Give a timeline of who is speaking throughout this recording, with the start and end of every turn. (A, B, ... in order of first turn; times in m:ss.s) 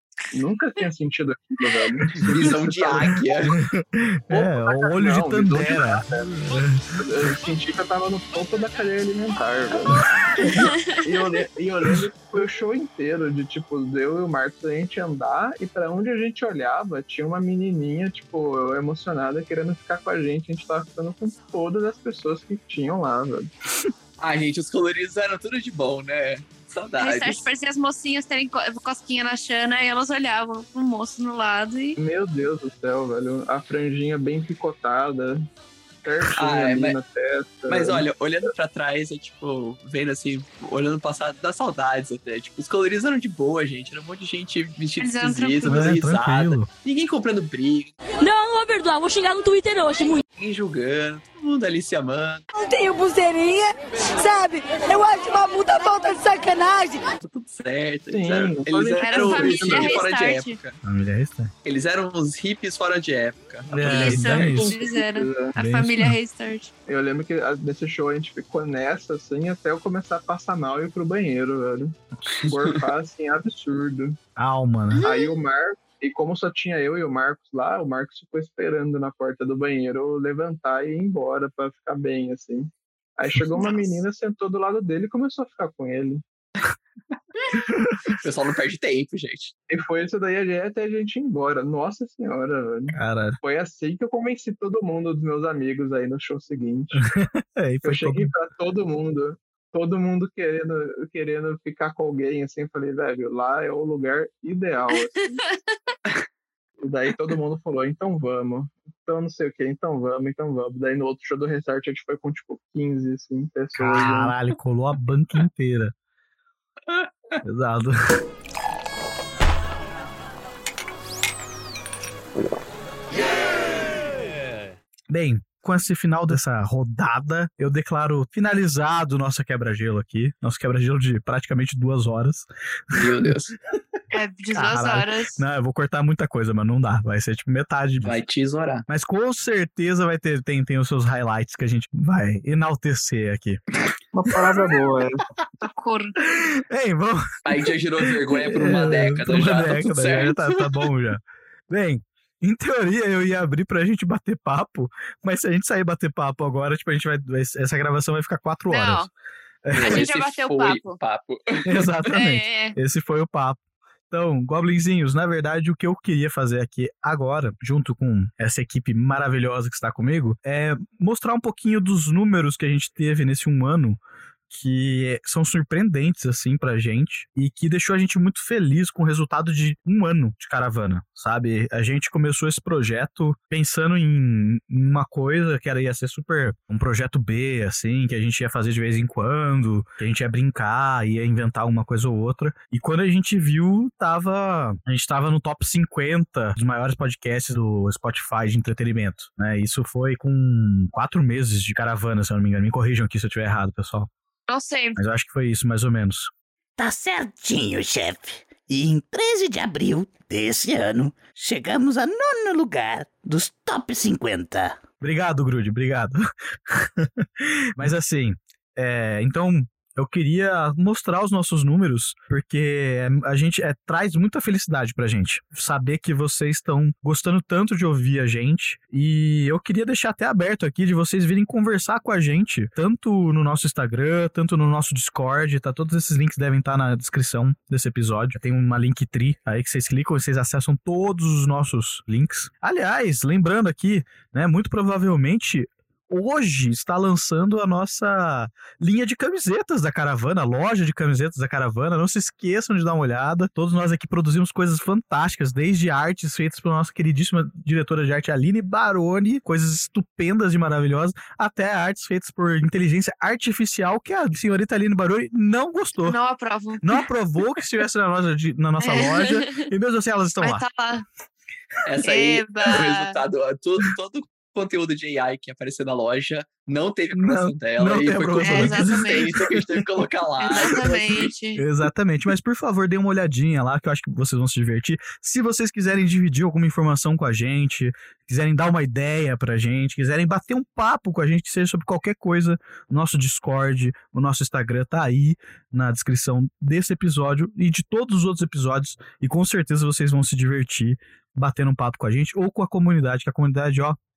0:00.3-0:03.2 A
0:02.2-0:03.5 B
0:03.4-0:07.0 C
0:04.3-0:06.3 A
0:07.0-0:23.5 A
0:10.5-0:11.0 D
0:24.2-0:27.4 B
0:27.0-0:32.0 D
0:32.0-0:35.5 A
0:36.0-0:38.0 A
0:36.3-0:37.0 B
0:37.7-0:47.9 B
0:45.0-0:45.9 D
0:45.6-0:46.7 C
0:48.2-0:50.2 E
0:50.4-0:52.4 B
0:52.5-0:57.1 E
0:57.2-1:00.8 B
0:58.1-1:00.0 A
0:59.0-1:00.6 D
1:00.8-1:01.5 C
1:01.6-1:04.6 B
1:03.7-1:04.7 C
1:03.8-1:06.7 D
1:04.5-1:05.6 A
1:05.6-1:06.2 C
1:06.9-1:14.2 A
1:14.4-1:15.0 C
1:14.9-1:15.4 D
1:15.0-1:26.2 A
1:23.6-1:24.0 D
1:28.1-1:29.5 B
1:29.7-1:37.0 A
1:32.9-1:33.4 C
1:36.9-1:38.3 C
1:37.8-1:45.4 A
1:46.8-1:54.3 A
1:53.8-1:55.9 C
1:56.9-1:57.4 B
1:57.4-1:58.0 C
2:05.1-2:13.3 C
2:12.9-2:13.6 B
2:14.1-2:15.4 D
2:14.5-2:18.1 C
2:18.0-2:18.8 B
2:18.9-2:23.6 C
2:24.1-2:25.2 A
2:25.7-2:26.2 D
2:26.2-2:39.1 C
2:27.4-2:30.6 B
2:38.7-2:39.1 D
2:39.6-2:40.1 C
2:39.7-2:41.9 B
2:39.8-2:41.0 D
2:41.6-2:43.6 C
2:42.1-2:42.8 D
2:44.1-2:54.0 C
2:54.5-3:24.1 C
3:24.5-3:25.0 D
3:25.0-3:26.3 C
3:26.8-3:34.8 F
3:35.0-4:26.2 C
4:26.0-4:27.0 D
4:26.8-4:30.6 C
4:28.8-4:29.7 D
4:30.4-4:31.0 D
4:31.8-4:41.3 B
4:32.0-4:33.2 D
4:37.1-4:40.9 C
4:38.4-4:39.2 D
4:40.4-4:41.6 D
4:41.6-5:04.0 C